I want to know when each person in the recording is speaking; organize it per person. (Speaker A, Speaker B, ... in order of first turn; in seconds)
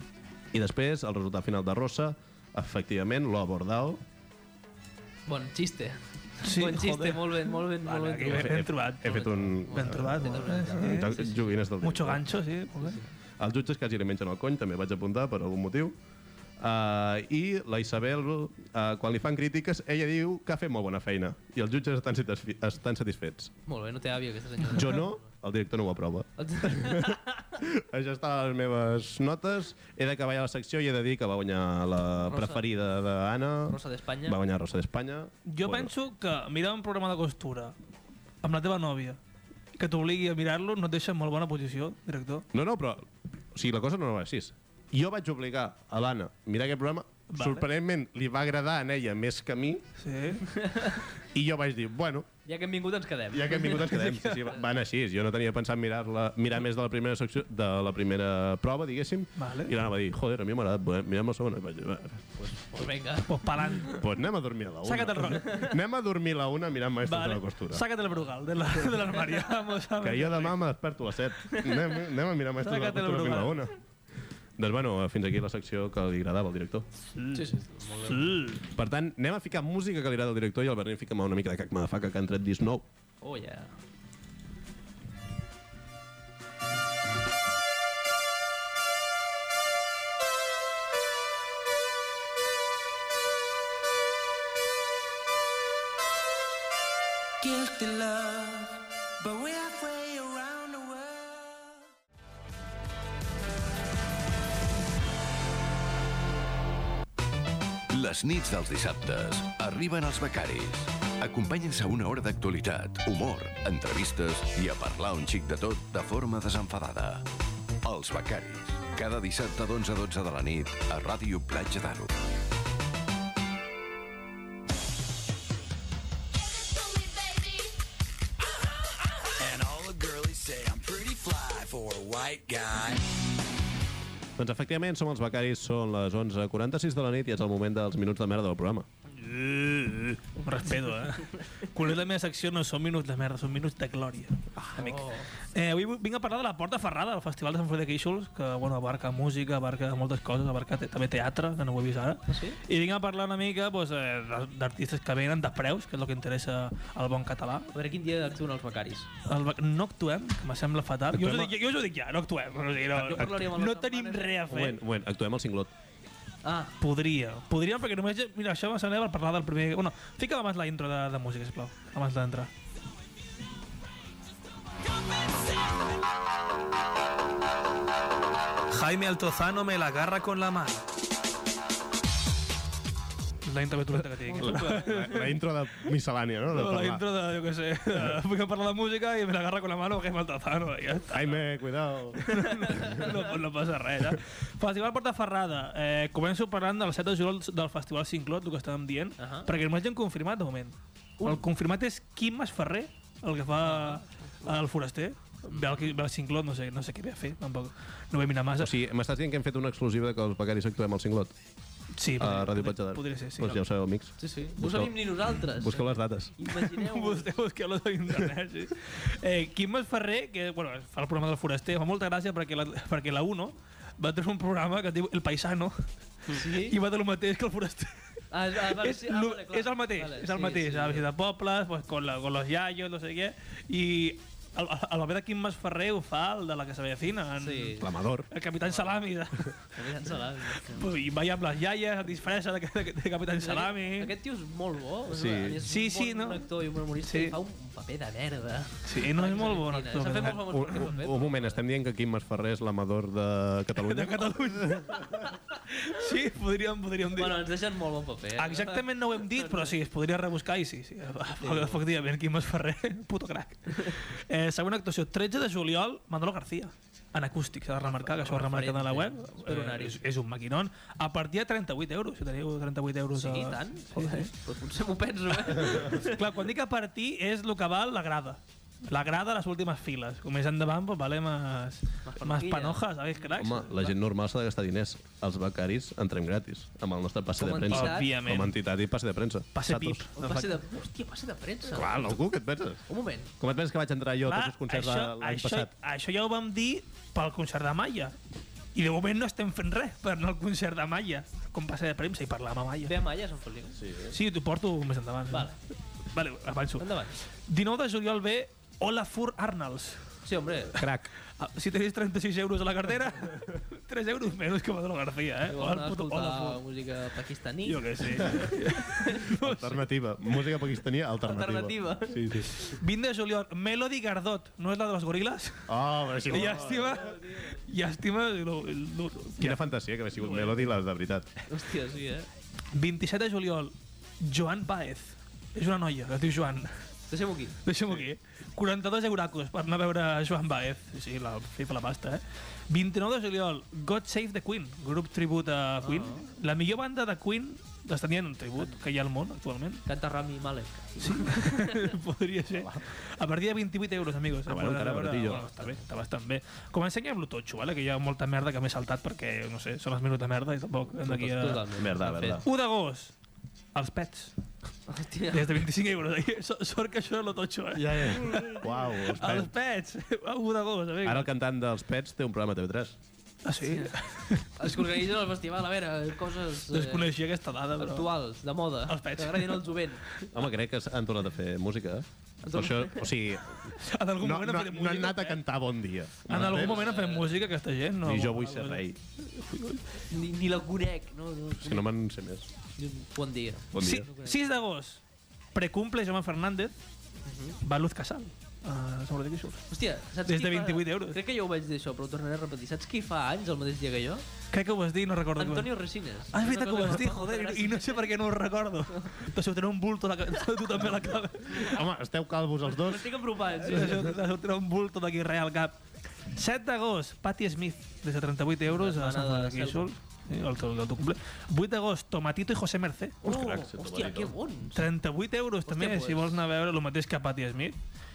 Speaker A: 0.5-4.0, 8.3-12.3, 13.4-15.9, 16.6-23.5, 24.7-35.9, 42.5-49.8, 51.3-52.3, 53.3-62.4, 63.9-67.8, 70.0-73.8, 74.6-76.9, 78.7-82.8, 134.4-138.9, 161.1-161.5, 164.5-165.7, 184.3-187.0, 191.1-193.0, 208.6-211.3, 212.2-216.3, 237.8-238.3, 245.1-245.6, 250.4-255.2, 283.4-290.0, 291.7-292.8, 293.4-295.7, 303.8-304.2, 310.7-311.1, 319.4-322.6, 325.7-327.0, 329.4-331.3, 352.5-352.9, 354.5-355.5, 361.8-362.5, 367.7-369.5, 371.0-373.0, 380.3-386.9, 388.0-389.0, 391.6-392.5, 393.7-394.1, 411.5-413.1, 423.2-424.3
Speaker B: 5.3-11.3, 23.6-25.2, 26.4-27.2, 32.3-32.6, 33.7-34.4, 50.5-51.0, 52.5-53.9, 62.4-63.9, 65.4-65.7, 77.3-78.4, 83.2-83.8, 144.8-145.3, 152.3-152.6, 157.7-159.1, 162.9-164.5, 166.4-166.7, 184.3-185.2, 199.2-199.5, 203.7-204.5, 214.2-217.3, 226.3-226.8, 228.3-231.0, 237.4-237.9, 238.7-239.0, 239.7-240.9, 243.4-251.6, 257.1-259.7, 261.4-261.8, 267.8-270.0, 273.1-276.2, 282.0-282.8, 287.4-288.1, 290.1-292.1, 292.9-293.3, 302.8-303.8, 305.3-305.6, 306.8-307.1, 310.2-310.8, 315.5-319.2, 321.2-322.2, 326.3-327.6, 331.5-332.3, 337.1-337.6, 345.8-346.3, 349.9-351.8, 355.3-355.8, 361.0-362.4, 364.9-365.6, 373.6-373.9, 374.6-377.1, 377.8-380.2, 382.4-383.1, 386.3-387.5, 390.1-391.9, 392.8-394.4, 397.2-397.6, 399.7-404.2, 405.4-408.2, 412.6-414.1, 418.6-419.9, 423.2-424.9, 425.7-426.4
Speaker C: 6.4-11.2, 11.8-13.0, 35.5-37.7, 38.4-39.2, 39.8-42.5, 47.3-47.6, 50.0-50.5, 53.7-54.5, 59.4-59.8, 63.2-64.0, 64.8-65.6, 67.0-70.6, 72.6-73.6, 77.2-78.6, 139.1-157.7, 159.2-164.8, 166.8-172.5, 178.7-180.8, 183.4-185.4, 186.5-191.4, 192.2-208.7, 212.0-213.6, 216.5-228.0, 228.5-239.7, 240.6-244.1, 245.6-247.3, 248.8-250.9, 253.8-257.4, 258.4-274.3, 275.6-283.9, 287.7-288.6, 289.5-290.6, 294.2-298.1, 298.7-302.9, 304.1-305.6, 306.1-310.0, 310.8-316.6, 317.6-319.8, 322.5-325.7, 326.3-330.7, 332.7-336.8, 337.6-349.8, 351.0-361.6, 362.4-363.1, 363.7-364.3, 365.3-371.3, 373.4-375.0, 376.7-378.1, 378.9-380.2, 383.8-385.4, 386.3-389.9, 393.8-395.0, 395.5-396.7, 397.6-399.7, 400.2-401.2, 404.5-411.8, 413.6-415.8, 416.3-423.2, 424.7-427.8
Speaker D: 107.9-117.2, 117.8-122.1
Speaker E: 126.9-127.5, 129.4-133.0